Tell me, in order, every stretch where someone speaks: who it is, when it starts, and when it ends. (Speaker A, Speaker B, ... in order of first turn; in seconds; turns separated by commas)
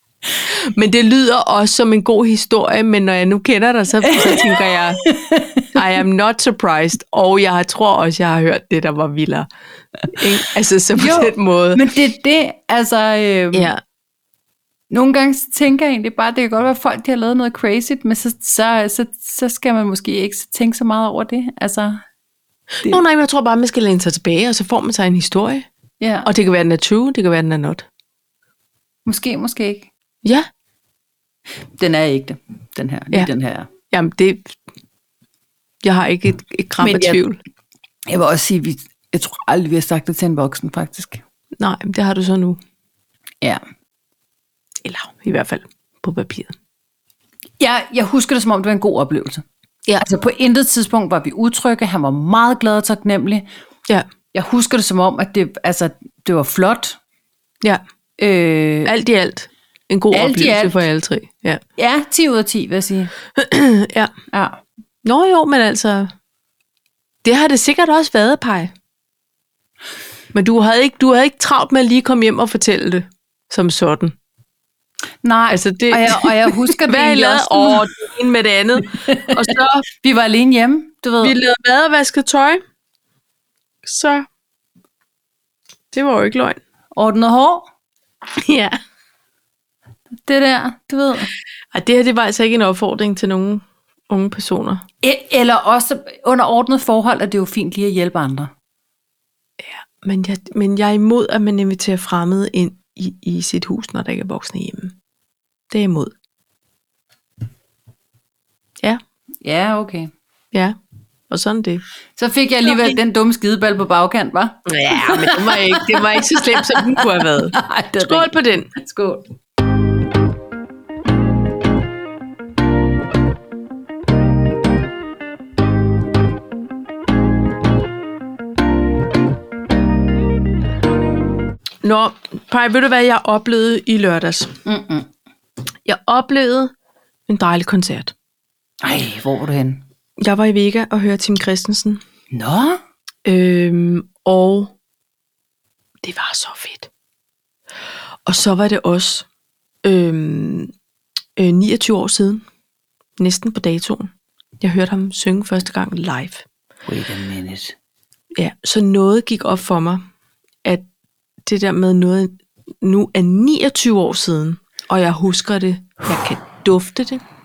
Speaker A: 0.4-5.0, Speaker B: 4.0-4.4, Speaker B: 5.0-5.7, Speaker A: 5.7-9.5, Speaker A: 10.1-11.8, Speaker B: 10.9-13.7, Speaker A: 13.5-13.8, Speaker B: 14.9-22.0, Speaker A: 22.8-25.7, Speaker B: 26.0-26.3, Speaker A: 26.2-27.9, Speaker B: 29.1-29.9, Speaker A: 30.2-30.5, Speaker B: 31.8-33.7, Speaker A: 33.9-34.6, Speaker A: 35.8-37.4, Speaker B: 36.8-37.2, Speaker B: 38.1-41.2, Speaker A: 41.6-42.6, Speaker A: 44.8-46.5, Speaker B: 47.6-49.4, Speaker B: 50.0-53.5, Speaker B: 54.3-57.0, Speaker B: 58.2-58.9, Speaker A: 58.8-61.6, Speaker B: 60.1-60.8, Speaker B: 61.8-63.1, Speaker A: 63.4-64.1, Speaker B: 64.3-64.6, Speaker A: 65.0-66.1, Speaker A: 67.2-68.7, Speaker A: 70.3-74.1, Speaker B: 75.2-77.9, Speaker A: 75.5-79.8, Speaker B: 79.0-81.3, Speaker A: 81.2-82.6, Speaker A: 83.8-84.3, Speaker A: 85.9-86.6, Speaker B: 86.9-87.7, Speaker A: 88.3-88.8, Speaker B: 90.2-91.3, Speaker A: 91.7-94.8, Speaker B: 95.0-98.5, Speaker A: 99.6-105.0, Speaker A: 105.7-106.1, Speaker B: 109.4-110.1, Speaker A: 111.3-111.8, Speaker B: 112.2-119.2, Speaker A: 112.6-113.0, Speaker A: 114.7-118.7, Speaker A: 131.8-134.6, Speaker B: 134.6-135.1, Speaker A: 135.8-136.7, Speaker A: 137.3-138.1, Speaker B: 138.8-139.8, Speaker A: 140.2-142.0, Speaker B: 142.3-142.8, Speaker A: 143.2-144.7, Speaker A: 146.0-146.9, Speaker A: 148.2-149.2, Speaker A: 149.8-150.7, Speaker A: 151.3-152.4, Speaker A: 153.2-156.4, Speaker B: 156.8-157.7, Speaker A: 158.3-160.1, Speaker A: 161.4-167.2